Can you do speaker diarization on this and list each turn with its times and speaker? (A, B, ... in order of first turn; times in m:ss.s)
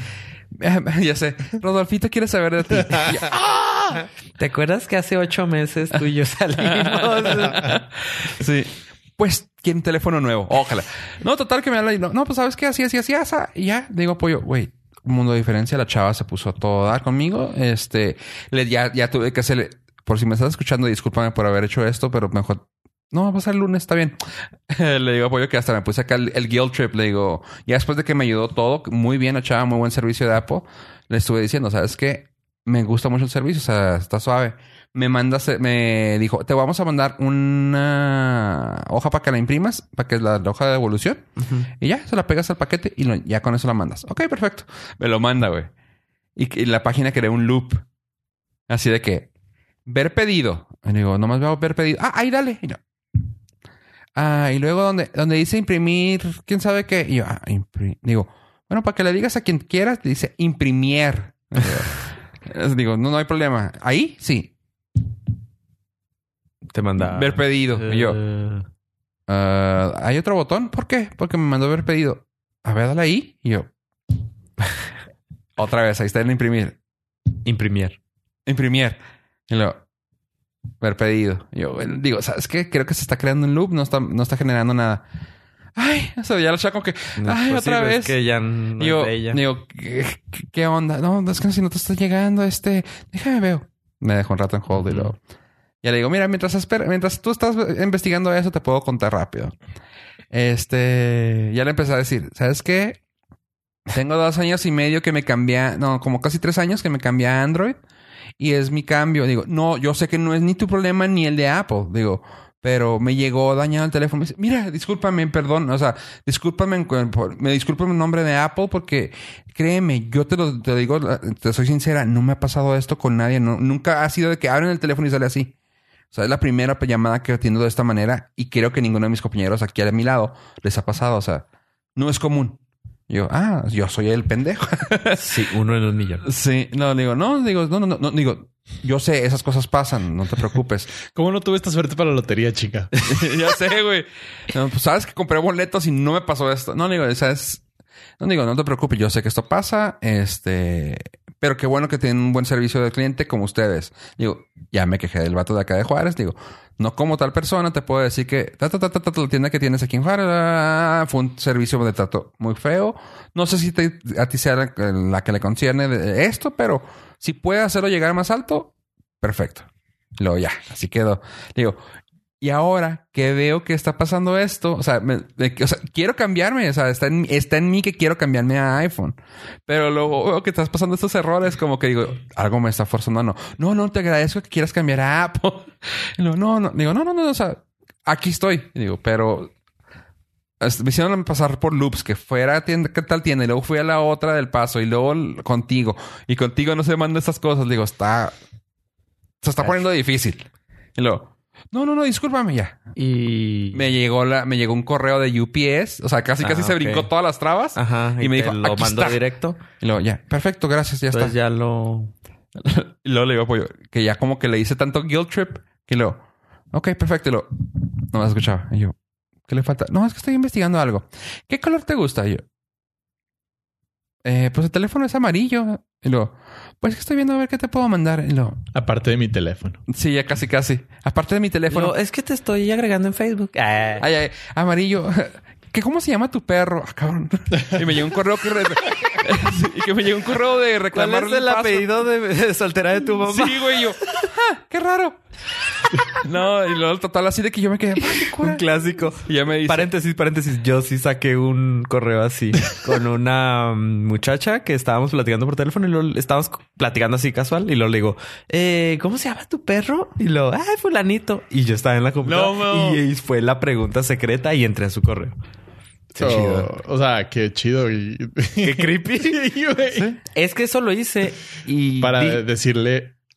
0:00.5-0:03.4 A
0:03.3-0:07.8 B
0:06.6-0:24.2 A
0:24.7-0:45.7 A
0:41.4-0:41.7 B
0:46.4-0:47.8 A
0:48.7-0:49.3 A
0:49.9-0:52.8 A
0:54.2-1:04.5 A
1:06.7-1:08.7 B
1:07.0-1:08.2 A
1:09.3-1:13.7 A
1:15.6-1:16.8 A
1:17.4-1:18.0 B
1:18.5-1:19.0 A
1:19.5-1:19.8 A
1:20.8-1:25.0 A
1:25.8-1:28.2 A
1:27.2-1:29.4 B
1:28.8-1:35.2 A
1:34.8-1:35.1 B
1:35.8-1:39.6 A
1:40.3-1:43.0 A
1:43.9-1:47.8 A
1:48.4-2:05.5 A
2:06.1-2:11.4 A
2:12.0-2:15.4 A
2:15.2-2:16.2 B
2:16.2-2:20.9 A
2:21.1-2:23.1 C
2:23.1-2:27.6 A
2:28.2-2:49.7 A
2:50.2-2:51.8 A
2:52.4-3:09.5 A
3:10.6-3:18.3 A
3:19.4-3:22.8 A
3:23.0-3:23.9 B
3:23.7-3:29.2 A
3:26.4-3:27.1 B
3:27.8-3:29.6 B
3:29.8-3:31.4 A
3:31.1-3:32.1 B
3:32.6-3:39.0 A
3:39.5-3:42.4 A
3:44.2-3:48.6 A
3:48.7-3:49.8 C
3:49.9-3:52.0 A
3:51.7-3:54.1 B
3:54.0-4:01.9 A
4:00.9-4:04.3 B
4:03.2-4:05.2 A
4:06.1-4:09.9 A
4:08.2-4:25.4 B
4:22.2-4:23.0 A
4:26.2-4:26.7 B
4:26.2-4:30.2 C
4:28.6-4:29.4 B
4:30.3-4:32.4 B
4:32.0-4:33.1 C